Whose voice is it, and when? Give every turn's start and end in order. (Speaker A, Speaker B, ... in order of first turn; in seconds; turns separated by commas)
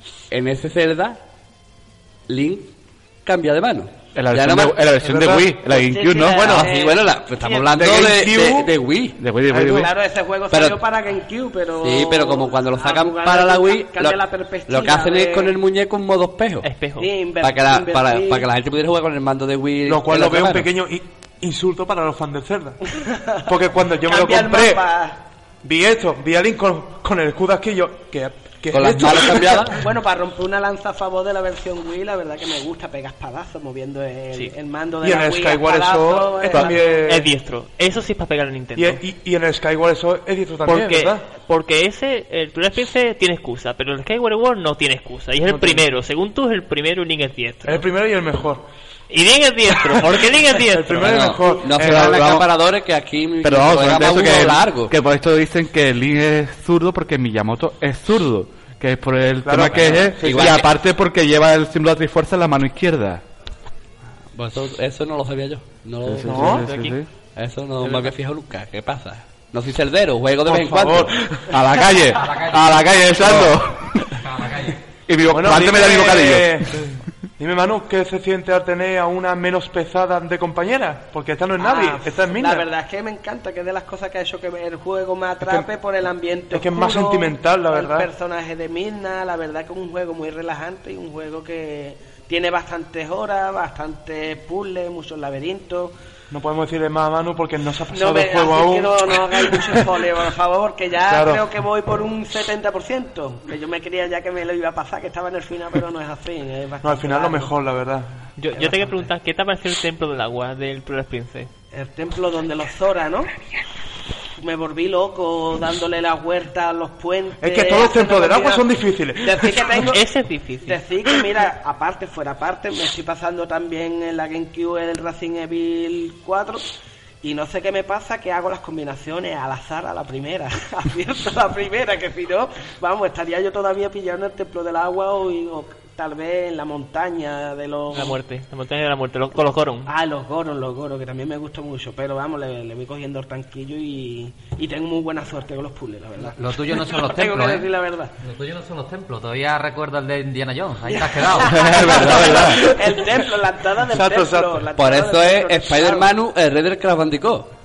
Speaker A: 0.3-1.2, Speaker A: 2.3-2.7, Speaker A: 3.2-5.3, Speaker B: 4.2-6.7, Speaker C: 5.0-5.5, Speaker D: 5.7-7.8, Speaker A: 6.2-9.2, Speaker C: 7.7-8.7, Speaker B: 9.2-9.9, Speaker C: 9.5-9.9, Speaker D: 9.7-15.6, Speaker A: 10.5-10.8, Speaker A: 11.8-16.7, Speaker E: 16.6-17.1, Speaker D: 17.0-18.5, Speaker A: 17.4-20.7, Speaker C: 19.8-24.9, Speaker D: 23.1-23.4, Speaker D: 24.1-25.2, Speaker C: 25.6-29.8, Speaker A: 28.7-29.8, Speaker D: 29.8-37.0, Speaker C: 35.0-37.3, Speaker E: 37.1-39.0, Speaker C: 38.8-41.2, Speaker E: 40.7-47.9, Speaker C: 45.5-45.8, Speaker C: 47.6-48.6, Speaker E: 49.1-51.4, Speaker C: 49.8-52.1, Speaker A: 51.0-54.9, Speaker B: 51.8-52.5, Speaker B: 53.4-63.2, Speaker C: 59.5-60.6, Speaker A: 59.9-60.7, Speaker A: 64.3-66.6, Speaker B: 66.0-67.1, Speaker C: 66.2-66.6, Speaker E: 66.4-67.0, Speaker A: 67.4-71.1, Speaker C: 67.8-68.2, Speaker C: 70.5-71.5, Speaker B: 71.5-74.2, Speaker F: 72.2-73.0, Speaker C: 73.2-73.6, Speaker F: 74.2-74.8, Speaker B: 75.1-76.7, Speaker C: 75.3-82.7, Speaker D: 81.6-95.9, Speaker C: 85.4-85.7, Speaker C: 86.5-88.1, Speaker C: 96.3-100.0, Speaker D: 97.9-107.5, Speaker C: 101.1-101.4, Speaker C: 106.8-108.1, Speaker E: 108.4-111.5, Speaker D: 108.6-109.0, Speaker D: 111.7-113.3, Speaker D: 114.4-118.7, Speaker C: 117.4-119.9, Speaker D: 119.2-120.0, Speaker E: 119.8-120.8, Speaker D: 120.7-126.7, Speaker D: 127.2-138.2, Speaker E: 137.9-139.9, Speaker D: 139.9-148.1, Speaker F: 146.2-152.2, Speaker D: 150.9-156.1, Speaker B: 151.5-152.7, Speaker C: 153.8-154.7, Speaker A: 154.8-157.5